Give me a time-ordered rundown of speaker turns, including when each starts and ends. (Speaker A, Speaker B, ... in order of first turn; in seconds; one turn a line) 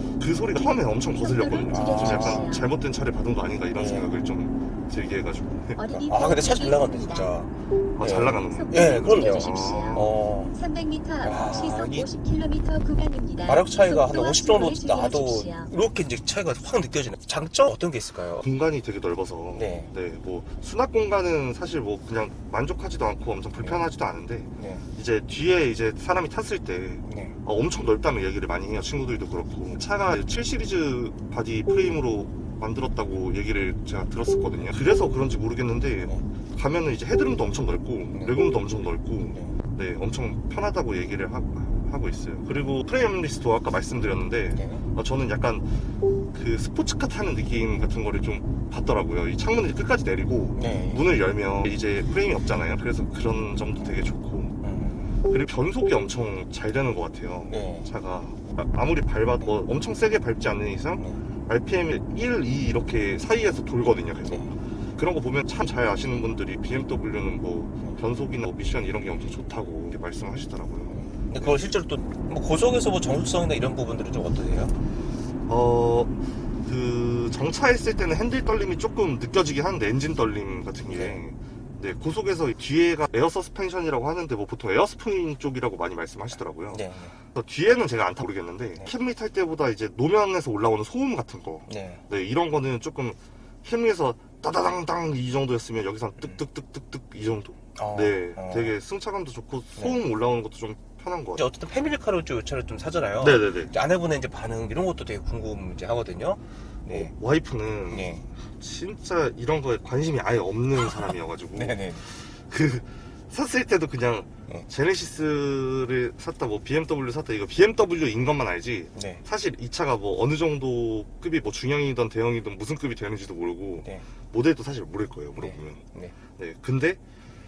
Speaker A: 0.2-5.8
Speaker B: 1.1-2.7
Speaker C: 1.7-2.5
Speaker C: 3.8-4.1
Speaker B: 5.8-7.3
Speaker C: 5.9-7.5
Speaker A: 8.0-10.1
Speaker C: 8.0-10.5
Speaker B: 8.4-15.7
Speaker C: 11.2-12.1
Speaker C: 13.4-18.4
Speaker A: 18.4-45.7
Speaker C: 19.5-19.9
Speaker C: 23.6-23.8
Speaker C: 24.6-24.8
Speaker C: 27.0-27.4
Speaker C: 39.3-39.5
Speaker C: 44.5-44.8
Speaker A: 46.3-54.5
Speaker C: 50.5-51.0
Speaker C: 54.6-55.1
Speaker A: 55.2-71.6
Speaker C: 57.5-57.9
Speaker C: 61.0-61.2
Speaker C: 70.9-74.7
Speaker A: 75.5-101.4
Speaker C: 80.9-81.2
Speaker C: 86.7-87.1
Speaker C: 91.7-92.0
Speaker C: 97.8-98.7
Speaker C: 101.3-107.1
Speaker A: 103.2-103.7
Speaker A: 106.9-125.8
Speaker C: 107.9-108.2
Speaker C: 111.5-112.0
Speaker C: 118.9-119.2
Speaker C: 125.3-126.1
Speaker A: 126.4-127.0